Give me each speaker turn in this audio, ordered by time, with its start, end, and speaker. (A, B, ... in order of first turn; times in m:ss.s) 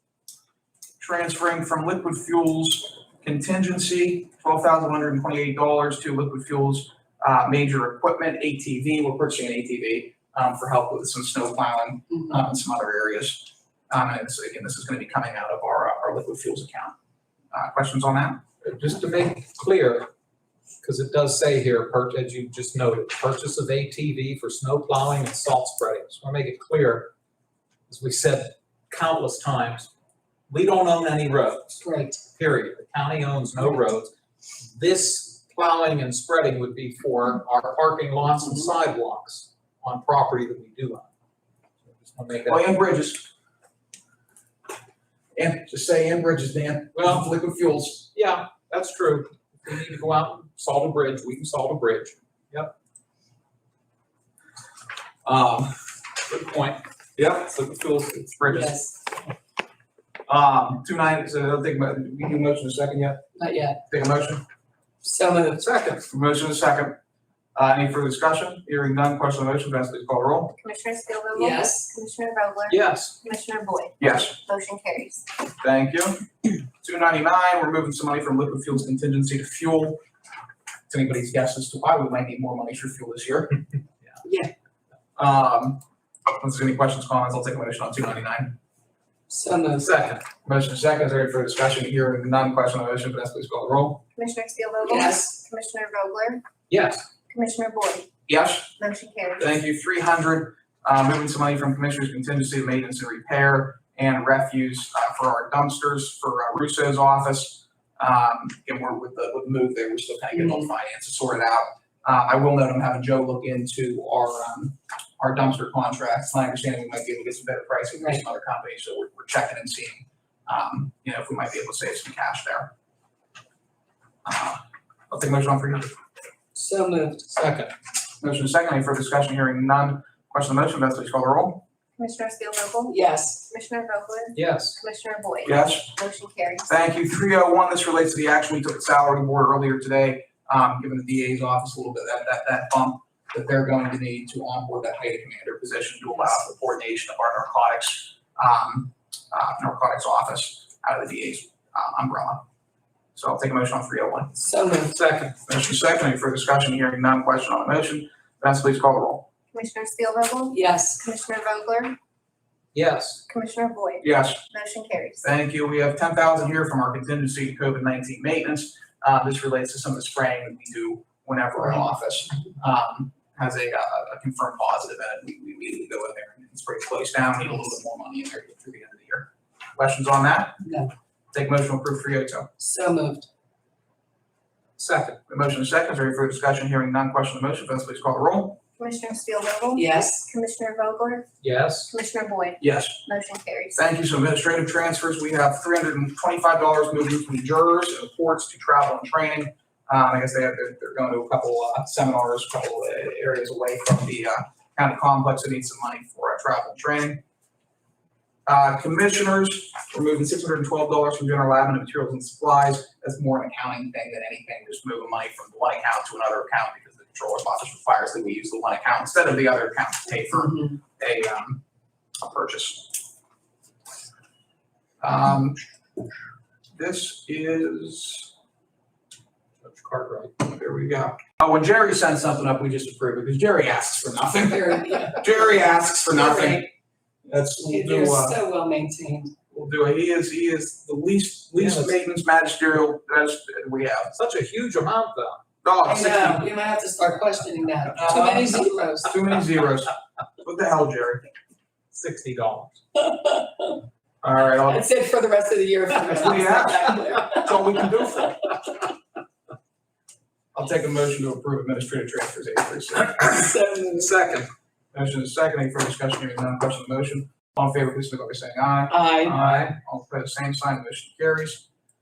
0:01.0-0:16.9 A
0:12.1-0:12.4 B
0:17.5-0:18.4 A
0:18.6-0:20.1 C
0:20.8-0:27.1 C
0:27.9-0:29.9 C
0:30.5-0:34.1 C
0:31.8-0:32.2 B
0:34.6-0:41.1 C
0:41.9-0:42.6 C
0:42.4-0:43.3 A
0:45.4-0:48.1 A
0:46.9-0:47.3 C
0:48.1-0:52.7 C
0:55.2-0:55.8 A
0:56.3-0:56.8 C
0:57.2-0:58.8 A
0:58.5-0:59.0 B
1:00.3-1:03.3 A
1:03.4-1:03.8 B
1:03.9-1:04.4 A
1:05.0-1:05.7 B
1:05.6-1:06.0 C
1:06.1-1:07.0 A
1:07.5-1:10.5 A
1:10.6-1:15.2 D
1:11.4-1:11.9 B
1:12.7-1:13.1 C
1:14.0-1:14.4 A
1:15.6-1:20.0 A
1:20.9-1:23.6 A
1:24.2-1:24.5 B
1:25.2-1:25.8 A
1:26.3-1:28.6 A
1:29.3-1:29.9 B
1:29.8-1:30.2 C
1:30.4-1:34.0 A
1:34.1-1:36.4 D
1:34.8-1:35.4 B
1:36.7-1:37.0 C
1:37.3-1:38.1 D
1:38.3-1:38.8 A
1:38.8-1:39.5 D
1:39.4-2:02.7 A
1:50.3-1:50.7 B
1:57.9-1:58.2 B
2:04.2-2:06.0 A
2:06.5-2:07.3 B
2:07.3-2:07.7 C
2:08.2-2:11.6 A
2:12.0-2:16.7 D
2:12.9-2:13.4 B
2:14.3-2:14.8 C
2:15.4-2:16.0 A
2:16.6-2:32.4 A
2:33.1-2:34.3 A
2:34.4-2:35.0 B
2:34.9-2:35.3 C
2:35.4-2:39.3 A
2:39.5-2:42.0 D
2:40.5-2:41.0 B
2:42.7-2:43.2 C
2:43.3-2:45.2 D
2:44.0-2:44.4 A
2:45.2-3:00.6 A
3:00.6-3:00.9 B
3:01.3-3:02.5 A
3:02.6-3:03.3 B
3:04.8-3:05.2 C
3:05.3-3:08.6 A
3:08.8-3:11.3 D
3:09.7-3:10.2 B
3:11.4-3:11.9 C
3:11.9-3:13.8 D
3:12.6-3:13.0 A
3:13.8-3:27.2 A
3:28.5-3:41.6 A
3:42.2-3:43.0 A
3:45.0-3:45.6 A
3:46.7-3:48.3 A
3:49.6-3:50.3 C
3:50.4-3:56.7 A
3:54.4-3:56.7 B
3:57.2-3:58.4 A
3:57.6-3:59.3 B
3:59.5-4:04.1 A
4:01.5-4:02.0 C
4:04.1-4:05.4 C
4:05.6-4:06.5 A
4:05.8-4:09.2 B
4:07.9-4:11.2 A
4:11.9-4:12.8 C
4:13.0-4:13.8 B
4:14.2-4:14.8 A
4:14.6-4:18.3 B
4:16.0-4:18.6 A
4:20.5-4:23.3 A
4:23.2-4:24.2 B
4:24.0-4:24.4 C
4:24.9-4:31.6 A
4:28.9-4:29.4 B
4:29.4-4:29.7 C